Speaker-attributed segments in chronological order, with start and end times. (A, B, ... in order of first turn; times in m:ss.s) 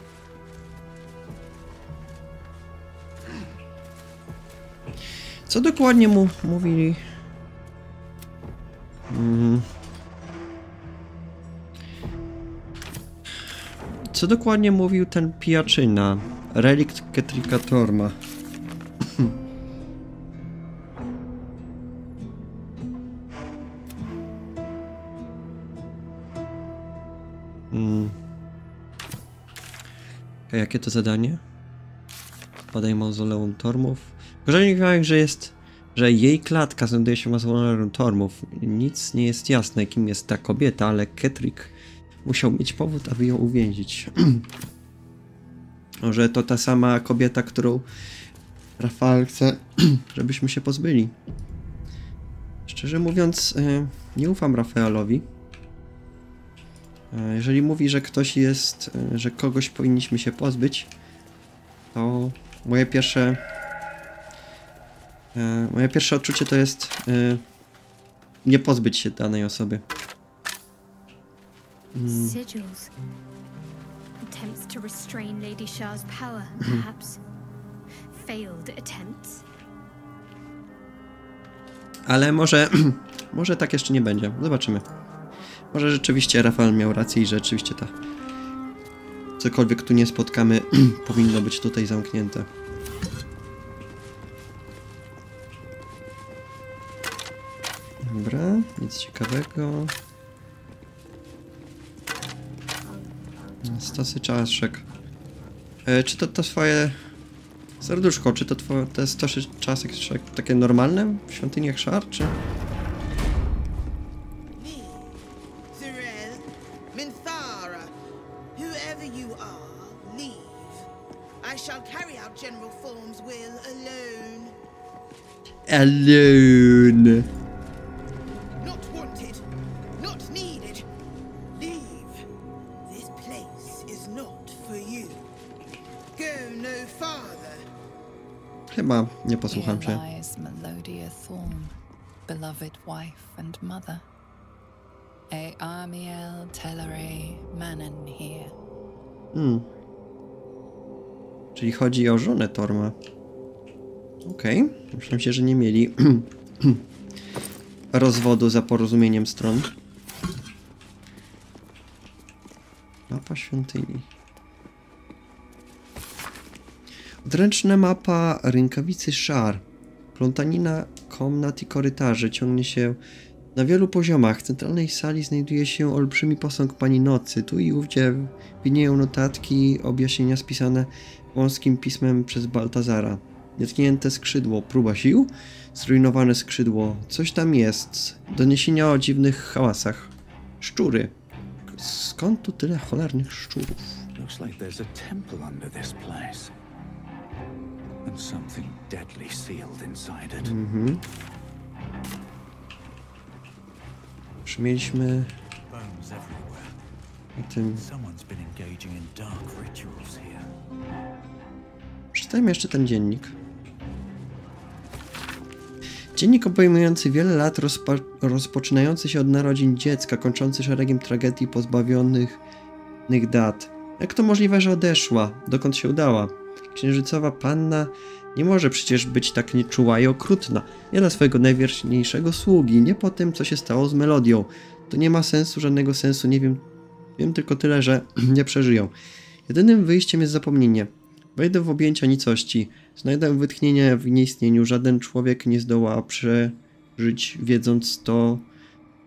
0:05.5-0:07.0 A
0:09.1-0:09.7 A
0:14.1-0:18.2 A
0:27.7-0:28.2 A
0:30.5-0:31.4 A
0:32.7-0:41.7 A
0:42.2-0:44.4 A
0:46.0-0:47.9 A
0:48.8-0:51.1 A
0:52.7-0:55.3 A
0:57.1-1:00.9 A
1:01.9-1:03.4 A
1:05.3-1:07.4 A
1:08.4-1:09.8 A
1:11.9-1:12.4 A
1:12.0-1:12.9 B
1:14.2-1:17.2 B
1:18.1-1:19.4 B
1:22.0-1:24.8 A
1:25.7-1:27.9 A
1:29.4-1:32.5 A
1:38.0-1:39.9 A
1:43.6-1:44.8 A
1:45.8-1:47.0 A
1:47.8-1:52.4 A
1:54.6-1:55.1 C
1:55.7-1:57.9 C
1:58.5-2:00.8 C
2:01.4-2:04.5 C
2:05.7-2:07.2 A
2:08.6-2:09.4 C
2:10.0-2:10.9 C
2:11.5-2:12.2 C
2:12.8-2:15.3 C
2:16.2-2:17.6 C
2:18.7-2:20.0 A
2:19.5-2:21.8 D
2:22.3-2:24.0 D
2:25.3-2:28.5 D
2:29.3-2:29.7 A
2:31.6-2:33.0 A
2:34.2-2:36.8 A
2:37.9-2:39.7 A
2:43.1-2:44.1 A
2:47.2-2:49.6 A
2:50.2-2:53.0 A
2:53.5-3:11.1 A
3:11.7-3:13.8 A
3:14.2-3:16.5 E
3:18.0-3:20.5 E
3:20.4-3:21.0 A
3:24.5-3:25.3 A
3:25.7-3:26.8 E
3:27.4-3:27.8 A
3:27.7-3:30.5 E
3:32.1-3:33.3 A
3:36.2-3:42.4 A
3:43.1-3:56.6 A
3:57.2-3:58.9 A
3:59.5-4:08.5 A